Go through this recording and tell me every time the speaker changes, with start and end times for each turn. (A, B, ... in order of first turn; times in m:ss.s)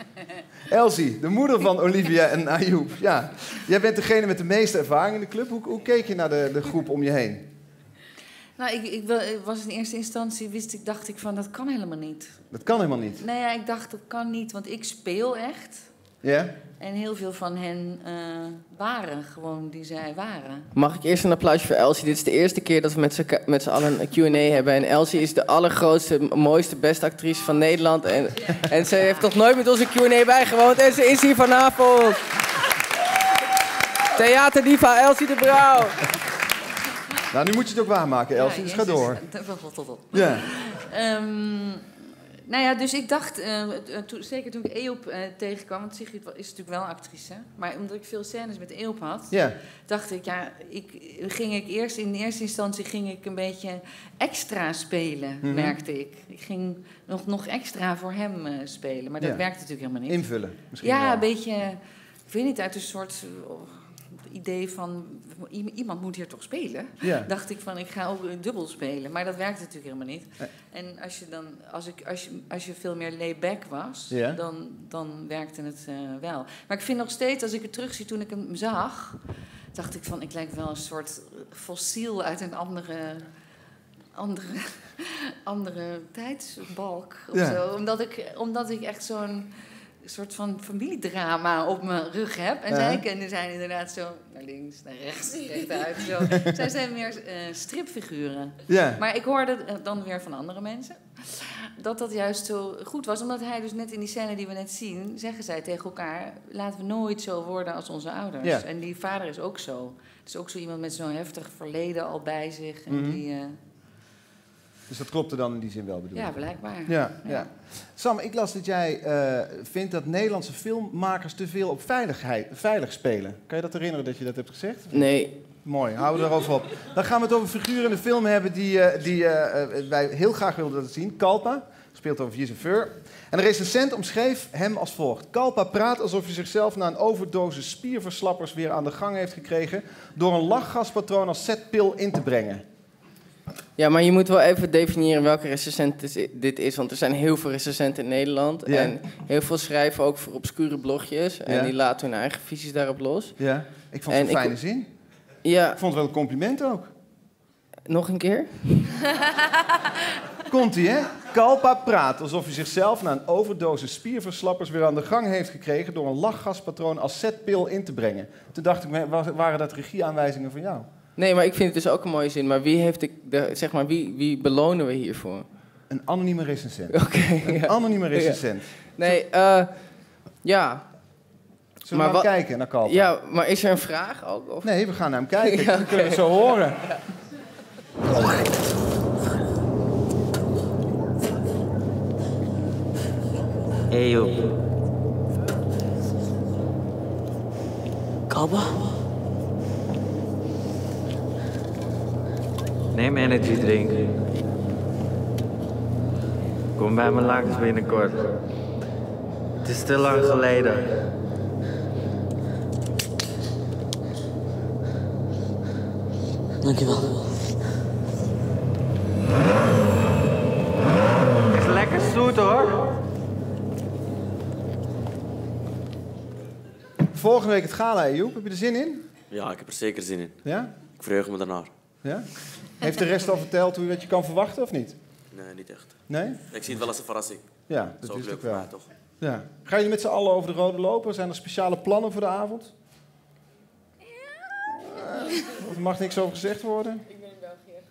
0:00.7-0:07.5 A
0:08.6-0:12.4 B
0:12.5-0:13.2 A
0:13.2-0:15.9 B
0:16.2-0:16.5 A
0:16.8-0:20.7 B
0:20.8-0:32.2 C
0:34.2-0:36.0 C
0:37.3-0:39.2 A
0:38.3-0:41.8 B
0:40.1-0:40.4 A
0:42.5-1:00.2 B
0:49.3-0:49.6 A
0:55.4-0:55.8 A
0:59.2-0:59.4 A
1:00.1-1:01.2 A
1:00.8-1:19.2 B
1:07.0-1:07.3 A
1:14.1-1:14.4 A
1:19.7-1:23.3 B
1:24.2-1:29.5 B
1:27.3-1:27.6 A
1:30.0-1:53.6 B
1:32.7-1:33.0 A
1:38.7-1:39.0 A
1:52.9-1:53.2 A
1:54.9-2:05.0 A
1:56.2-1:57.5 B
2:04.9-2:05.3 C
2:05.6-2:22.6 A
2:23.8-2:33.4 C
2:28.7-2:28.9 A
2:33.4-2:34.9 A
2:34.1-2:34.6 C
2:35.4-2:35.8 C
2:35.8-2:36.9 A
2:37.9-2:38.8 C
2:40.5-2:50.9 A
2:51.2-2:55.5 C
2:55.9-2:59.1 A
2:56.9-2:59.7 C
3:00.4-3:00.8 C
3:01.9-3:03.1 A
3:01.9-3:04.8 C
3:04.6-3:06.8 A
3:05.4-3:06.7 C
3:13.9-3:14.4 D
3:23.0-3:24.0 D
3:26.8-3:28.3 D
3:29.6-3:30.9 D
3:41.6-3:42.8 D
3:47.1-3:49.0 A
3:49.3-3:50.4 E
3:50.4-3:50.7 A
3:51.0-3:51.7 E
3:52.0-3:55.0 A
3:55.3-3:57.5 E
3:56.1-3:56.6 A
3:57.7-4:02.7 A
3:58.0-3:58.9 E
4:04.8-4:07.0 A